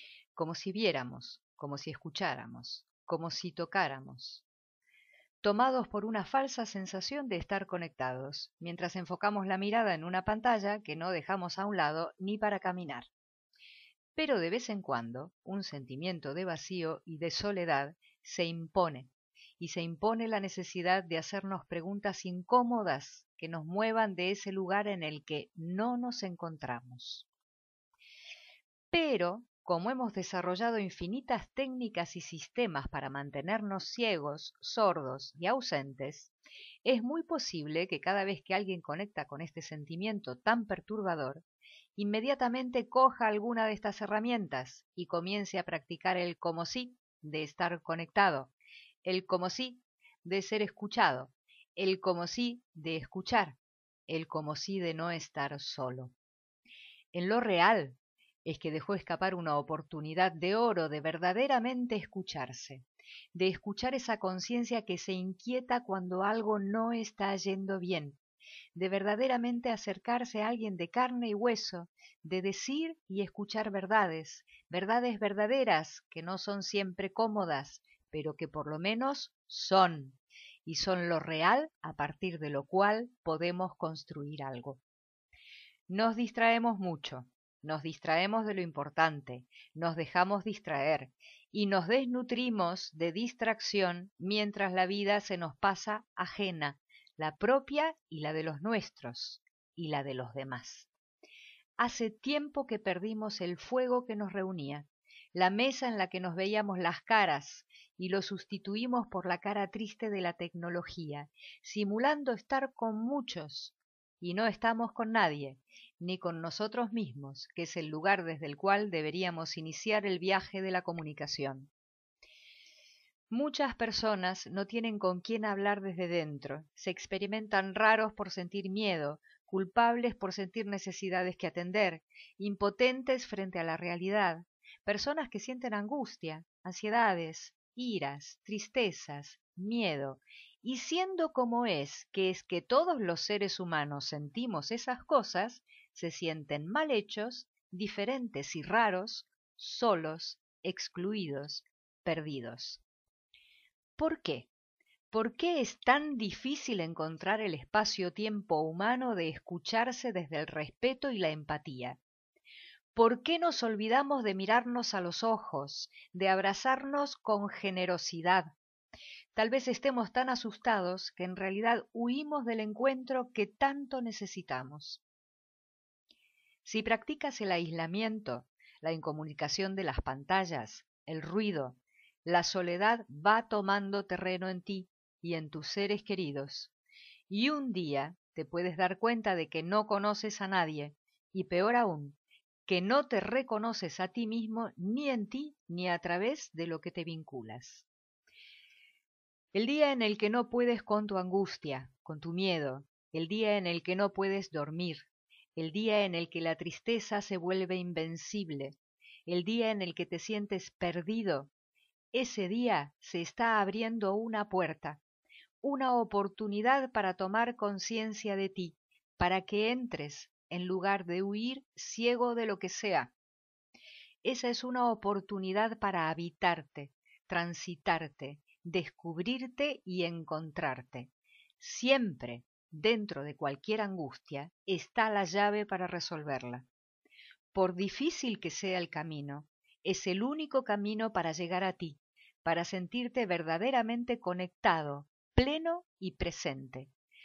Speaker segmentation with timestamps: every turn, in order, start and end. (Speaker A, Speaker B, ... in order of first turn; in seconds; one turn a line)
Speaker A: 0.3-4.4
Speaker A: 5.4-13.1
Speaker A: 14.2-27.2
Speaker A: 28.9-36.3
Speaker A: 36.8-41.4
Speaker A: 42.0-48.5
Speaker A: 49.0-56.1
Speaker A: 57.1-68.2
Speaker A: 68.7-84.8
Speaker A: 85.9-100.9
Speaker A: 101.8-121.7
Speaker A: 123.3-152.8
Speaker A: 154.0-154.5
Speaker A: 155.1-162.0
Speaker A: 162.9-168.5
Speaker A: 169.3-175.0
Speaker A: 176.6-186.7
Speaker A: 187.3-197.9
Speaker A: 199.5-211.5
Speaker A: 212.1-215.0
Speaker A: 215.6-223.1
Speaker A: 224.2-236.7
Speaker A: 237.5-246.9